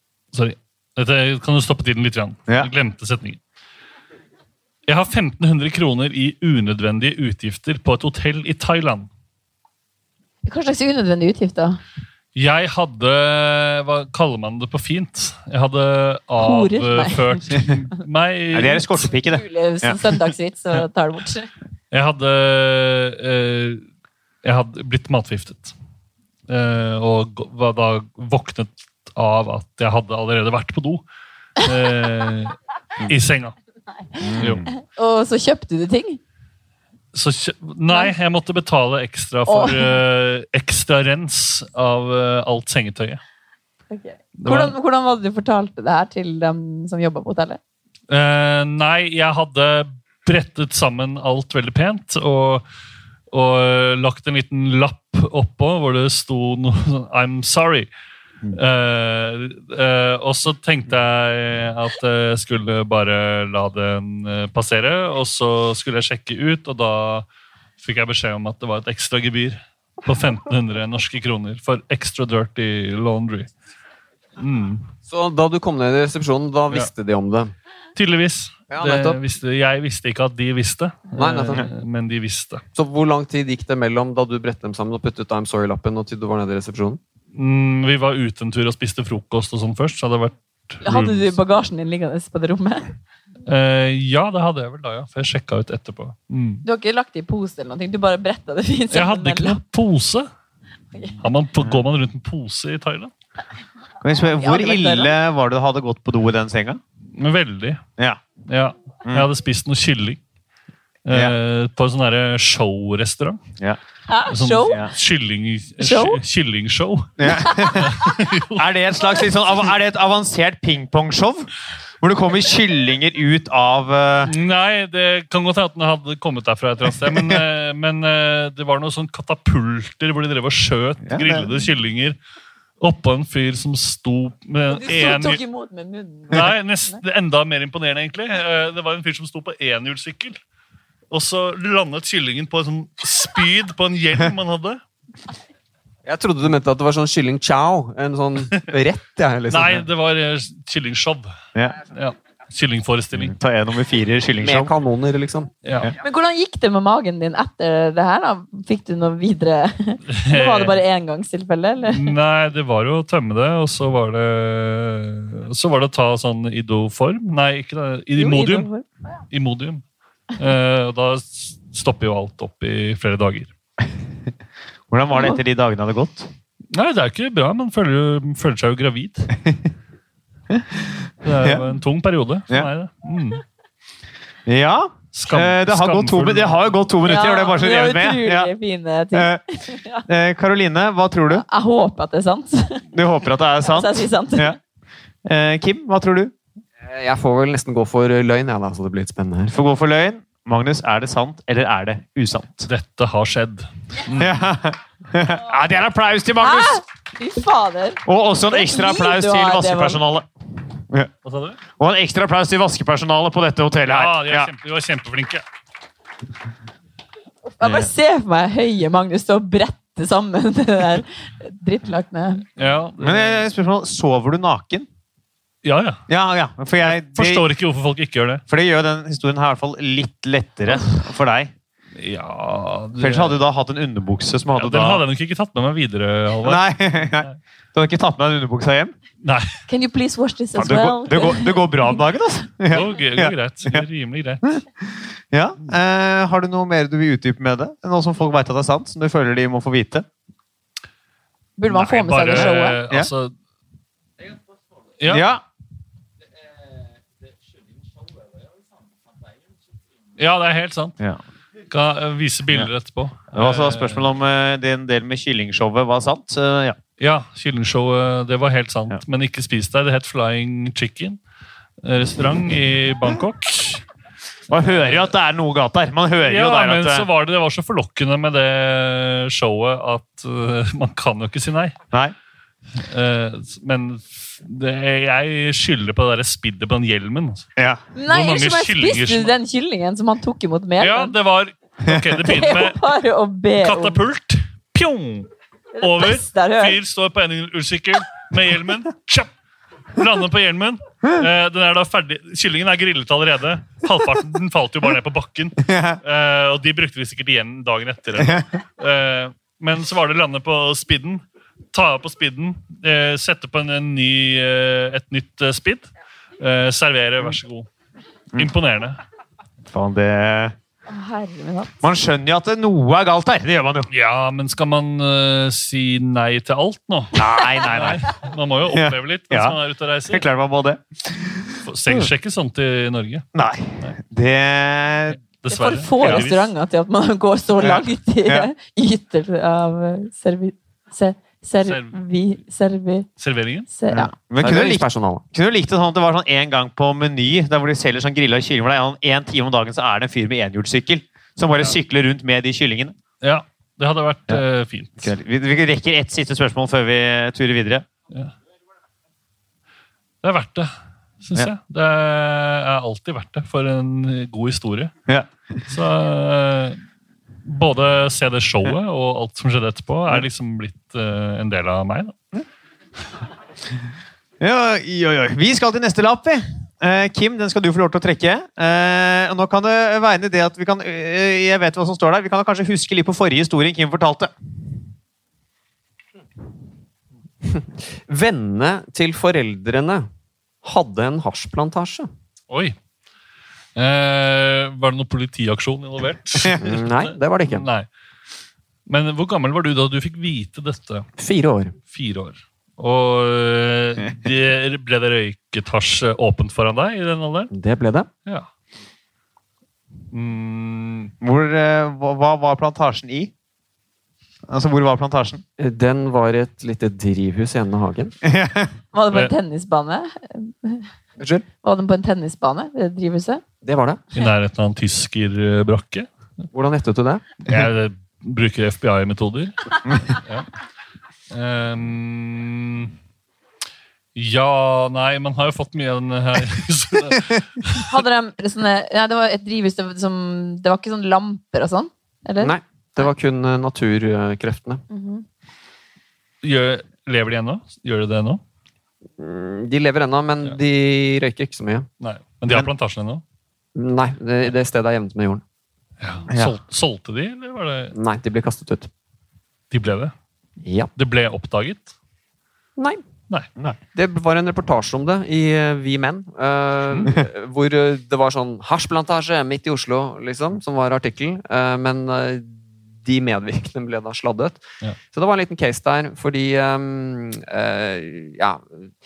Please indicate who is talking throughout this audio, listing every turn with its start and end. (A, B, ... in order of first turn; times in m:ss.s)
0:00.3-0:03.4 A
0:04.9-0:09.1 A
0:10.4-0:11.8 B
0:12.4-0:19.0 A
0:16.4-0:17.6 B
0:18.5-0:20.0 C
0:19.2-0:21.5 B
0:21.9-0:23.8 A
0:24.4-0:25.7 A
0:26.5-0:31.0 A
0:31.6-0:33.6 A
0:34.2-0:34.7 C
0:34.3-0:36.2 B
0:34.4-0:34.6 A
0:37.1-0:43.2 A
0:39.5-0:40.0 B
0:43.9-0:47.6 B
0:44.4-0:44.8 A
0:48.1-0:52.6 A
0:53.3-0:57.9 A
0:58.5-1:07.3 A
1:07.8-1:13.5 A
1:14.4-1:14.9 A
1:15.1-1:17.5 D
1:18.0-1:22.6 A
1:18.7-1:19.2 D
1:21.2-1:21.7 D
1:22.8-1:27.0 D
1:27.3-1:31.3 A
1:30.8-1:32.9 B
1:33.5-1:36.6 A
1:36.6-1:39.6 B
1:38.9-1:40.3 A
1:41.2-1:43.1 A
1:44.0-1:46.8 C
1:44.4-1:45.1 B
1:47.1-1:47.8 A
1:48.5-1:50.2 A
1:51.1-1:53.4 A
1:54.1-1:54.8 B
1:54.3-1:58.6 A
1:55.8-1:56.2 B
1:57.2-1:58.0 C
1:57.3-1:58.0 B
1:58.5-2:01.5 C
2:02.0-2:04.3 C
2:04.3-2:12.2 A
2:07.1-2:07.4 C
2:11.1-2:11.5 C
2:12.8-2:15.4 A
2:14.7-2:17.0 B
2:16.3-2:20.4 A
2:21.1-2:24.8 A
2:26.0-2:29.8 D
2:29.5-2:31.3 A
2:31.9-2:33.4 A
2:33.1-2:34.7 C
2:34.4-2:35.5 D
2:35.6-2:35.9 A
2:36.0-2:42.2 B
2:40.1-2:40.8 A
2:41.9-2:48.7 A
2:48.2-2:48.8 B
2:49.3-2:49.8 A
2:50.4-2:53.5 A
2:54.9-2:56.3 C
2:56.7-2:59.3 A
3:00.5-3:01.6 C
3:01.2-3:03.4 A
3:04.5-3:08.5 C
3:05.1-3:06.7 A
3:07.0-3:10.1 B
3:09.1-3:09.4 C
3:10.1-3:11.4 C
3:11.3-3:12.9 B
3:12.9-3:14.6 C
3:13.6-3:14.6 B
3:15.2-3:16.3 C
3:16.8-3:19.6 D
3:19.5-3:22.7 C
3:22.7-3:24.3 A
3:24.1-3:26.8 C
3:26.4-3:30.0 B
3:28.1-3:31.1 C
3:31.2-3:31.6 A
3:31.8-3:34.5 C
3:33.9-3:35.4 A
3:37.5-3:42.5 B
3:37.6-3:37.9 C
3:42.6-3:43.4 A
3:43.0-3:44.9 C
3:45.6-3:46.0 A
3:46.1-3:47.4 C
3:46.8-3:48.4 A
3:48.5-3:51.5 C
3:52.0-3:53.4 A
3:53.0-3:55.0 C
3:54.6-3:56.7 A
3:56.4-3:58.9 C
3:59.2-3:59.5 A
3:59.7-4:02.0 B
4:00.6-4:03.8 C
4:02.7-4:04.5 A
4:05.3-4:10.1 C
4:11.6-4:12.8 B
4:11.7-4:13.3 A
4:12.3-4:13.1 C
4:15.0-4:15.3 A
4:15.1-4:15.4 C
4:20.2-4:21.0 A
4:21.7-4:24.0 A
4:23.3-4:26.8 C
4:27.0-4:31.2 A
4:31.8-4:33.8 A
4:34.5-4:37.1 C
4:34.5-4:35.1 A
4:36.2-4:41.8 A
4:42.8-4:47.5 A
4:47.6-4:47.8 C
4:48.0-4:51.1 B
4:48.1-4:49.4 A
4:50.8-4:52.8 A
4:51.9-4:52.2 C
4:52.2-4:54.0 B
4:53.6-4:59.3 A
4:55.8-4:56.8 B
5:00.0-5:11.2 A
5:05.6-5:06.0 C
5:11.7-5:17.7 A
5:18.4-5:19.0 A
5:19.6-5:20.6 C
5:20.9-5:21.7 B
5:21.8-5:23.9 C
5:23.9-5:30.2 A
5:27.2-5:28.1 C
5:28.7-5:29.6 C
5:30.1-5:32.1 C
5:31.6-5:33.3 A
5:33.3-5:35.2 C
5:35.2-5:36.5 A
5:35.5-5:43.1 B
5:37.6-5:38.5 C
5:41.6-5:42.0 A
5:43.2-5:43.7 A
5:43.7-5:44.1 B
5:43.9-5:53.0 C
5:44.4-5:45.2 D
5:53.2-5:55.1 A
5:55.0-5:57.8 C
6:00.2-6:04.9 A
6:05.1-6:05.6 C
6:05.7-6:06.8 A
6:07.4-6:12.2 A
6:14.4-6:24.3 C
6:27.4-6:30.1 D
6:30.6-6:32.1 D
6:32.5-6:32.8 A
6:33.8-6:37.9 A
6:36.5-6:37.7 D
6:38.9-6:41.1 A
6:41.2-6:41.8 D
6:41.9-6:47.5 A
6:47.5-6:48.1 D
6:50.1-6:51.1 A
6:51.2-6:53.3 C
6:54.5-6:55.4 C
6:55.6-6:58.2 D
6:58.2-6:58.7 C
6:58.9-7:00.9 B
7:01.2-7:01.5 D
7:01.6-7:03.4 B
7:03.6-7:04.0 D
7:04.2-7:06.1 A
7:06.5-7:07.2 D
7:07.4-7:09.6 A
7:10.2-7:10.5 A
7:11.3-7:12.9 A
7:14.2-7:17.9 A
7:17.8-7:23.1 B
7:22.4-7:24.8 D
7:24.9-7:25.2 B
7:26.4-7:28.4 A
7:29.2-7:31.9 D
7:32.0-7:33.2 A
7:33.8-7:35.4 D
7:36.0-7:37.9 A
7:36.3-7:36.6 C
7:37.9-7:38.9 D
7:39.7-7:40.1 A
7:40.6-7:40.9 D
7:41.0-7:41.9 A
7:42.8-7:43.0 D
7:43.9-7:54.6 D
7:55.1-7:58.8 D